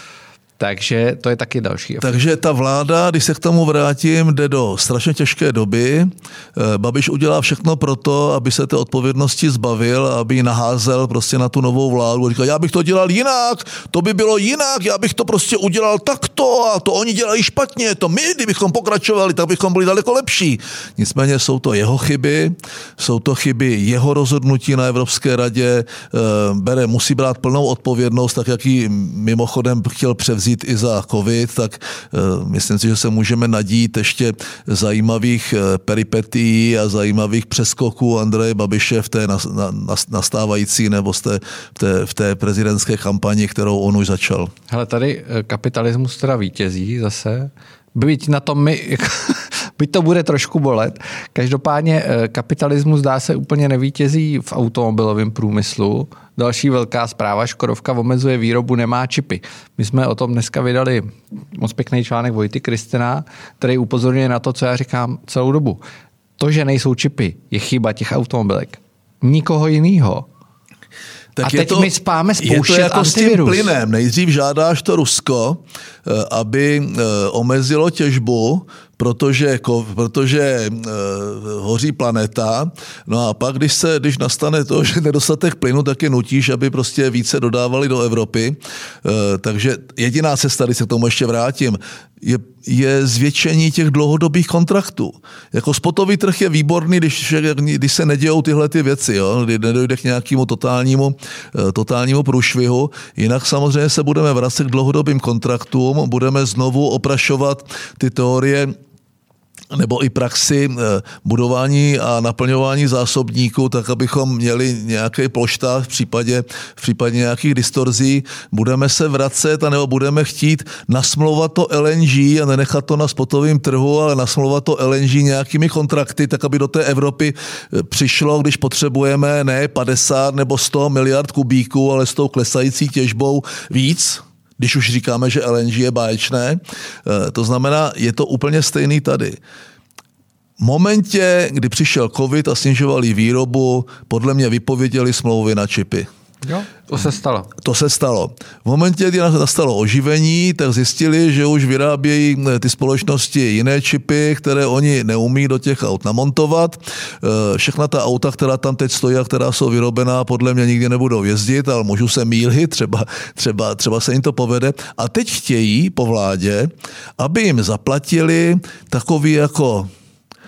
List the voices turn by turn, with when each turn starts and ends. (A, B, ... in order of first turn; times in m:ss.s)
0:00.6-0:02.1 A
0:02.0-0:44.5 B
0:44.7-1:05.8 A
1:06.4-1:10.3 A
1:11.4-1:48.7 B
1:11.4-1:13.7 A
1:49.7-2:19.4 B
2:20.6-2:26.1 B
2:26.4-2:27.5 A
2:27.6-2:49.9 B